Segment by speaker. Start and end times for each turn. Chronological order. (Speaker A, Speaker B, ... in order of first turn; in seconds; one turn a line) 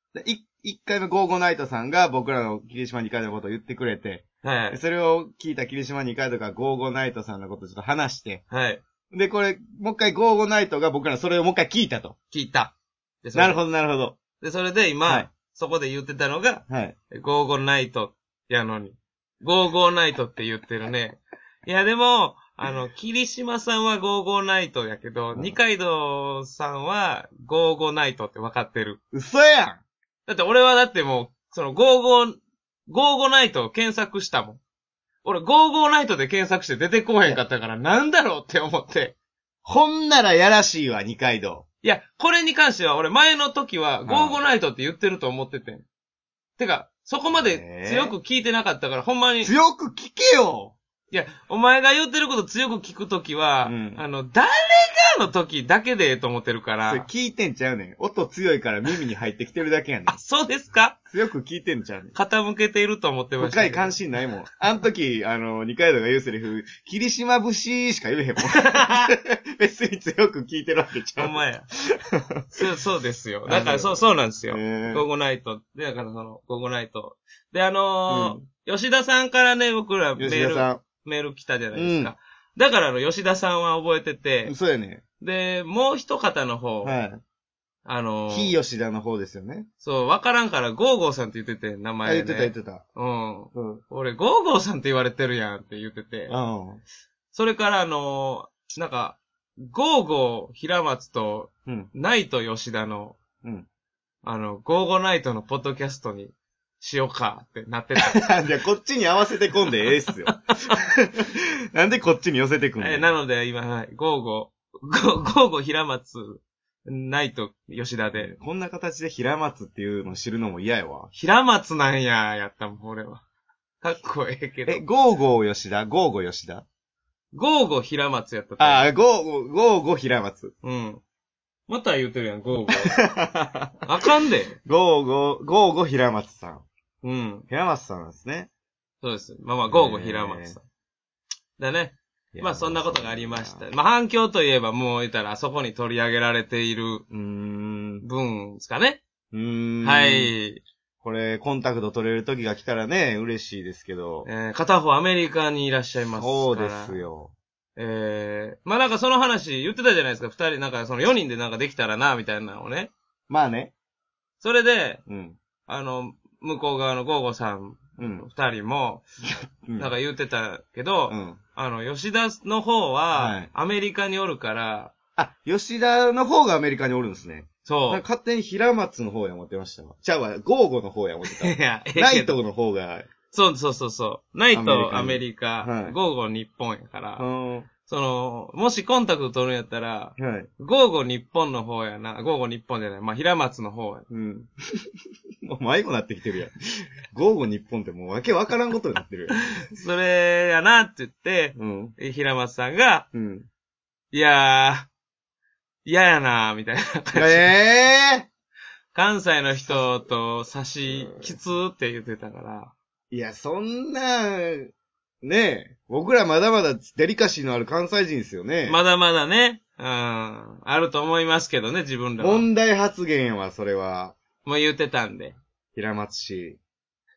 Speaker A: 0.1-8.4
Speaker B: 4.4-4.8
Speaker B: 8.5-8.8
Speaker A: 9.1-12.2
Speaker B: 12.3-13.6
Speaker A: 13.3-14.2
Speaker B: 14.4-29.0
Speaker A: 15.0-15.3
Speaker A: 16.7-16.9
Speaker A: 29.1-29.8
Speaker B: 30.2-32.4
Speaker B: 32.9-34.6
Speaker B: 35.2-39.2
Speaker A: 39.6-41.6
Speaker B: 41.8-45.8
Speaker A: 44.1-44.4
Speaker B: 46.6-49.5
Speaker A: 47.3-48.2
Speaker A: 49.4-50.8
Speaker B: 51.1-57.1
Speaker A: 53.6-54.0
Speaker A: 56.9-60.2
Speaker B: 60.1-61.0
Speaker A: 61.1-62.1
Speaker B: 62.1-64.0
Speaker A: 63.4-71.4
Speaker B: 68.5-69.1
Speaker B: 71.2-71.7
Speaker B: 72.5-84.5
Speaker A: 73.5-75.1
Speaker A: 78.1-78.4
Speaker A: 80.2-80.8
Speaker A: 81.7-82.1
Speaker A: 84.5-85.0
Speaker B: 85.2-87.0
Speaker A: 86.8-87.2
Speaker B: 87.8-88.5
Speaker A: 88.3-89.7
Speaker B: 89.8-96.3
Speaker A: 92.0-92.8
Speaker A: 93.5-93.8
Speaker A: 96.3-96.8
Speaker B: 97.3-103.2
Speaker A: 101.7-101.9
Speaker B: 104.2-108.3
Speaker A: 108.0-113.1
Speaker B: 112.8-118.3
Speaker A: 118.1-121.1
Speaker B: 121.1-123.2
Speaker B: 123.8-124.8
Speaker A: 124.7-126.7
Speaker B: 127.3-128.9
Speaker A: 128.6-130.5
Speaker B: 130.6-131.0
Speaker B: 131.7-133.0
Speaker A: 132.7-133.8
Speaker B: 133.8-134.6
Speaker A: 134.7-136.7
Speaker B: 137.0-137.4
Speaker A: 137.5-138.5
Speaker B: 139.0-140.6
Speaker A: 139.7-140.6
Speaker B: 141.6-147.1
Speaker A: 142.3-143.7
Speaker A: 147.1-148.1
Speaker B: 148.0-149.0
Speaker A: 149.3-150.3
Speaker B: 149.8-150.6
Speaker A: 151.0-154.3
Speaker B: 154.2-157.0
Speaker A: 156.1-157.3
Speaker B: 157.8-162.9
Speaker A: 163.3-163.7
Speaker B: 164.4-165.0
Speaker A: 165.1-165.4
Speaker B: 165.7-169.0
Speaker A: 168.0-168.2
Speaker A: 169.2-169.9
Speaker B: 169.8-174.9
Speaker A: 171.1-171.4
Speaker A: 173.1-173.5
Speaker A: 175.2-183.1
Speaker B: 177.6-178.0
Speaker B: 181.2-182.4
Speaker B: 183.3-187.2
Speaker A: 184.5-185.9
Speaker A: 187.2-187.7
Speaker B: 187.9-194.1
Speaker A: 190.2-190.5
Speaker A: 194.1-194.5
Speaker A: 195.4-196.5
Speaker A: 197.1-199.4
Speaker B: 199.6-203.1
Speaker A: 201.6-201.9
Speaker A: 203.1-203.5
Speaker B: 204.1-204.9
Speaker B: 205.8-207.5
Speaker A: 207.1-208.3
Speaker B: 208.9-212.7
Speaker A: 209.6-209.9
Speaker A: 210.9-211.4
Speaker A: 213.1-214.7
Speaker A: 215.2-218.8
Speaker B: 218.7-222.5
Speaker A: 222.2-224.2
Speaker B: 224.4-225.4
Speaker A: 225.8-226.6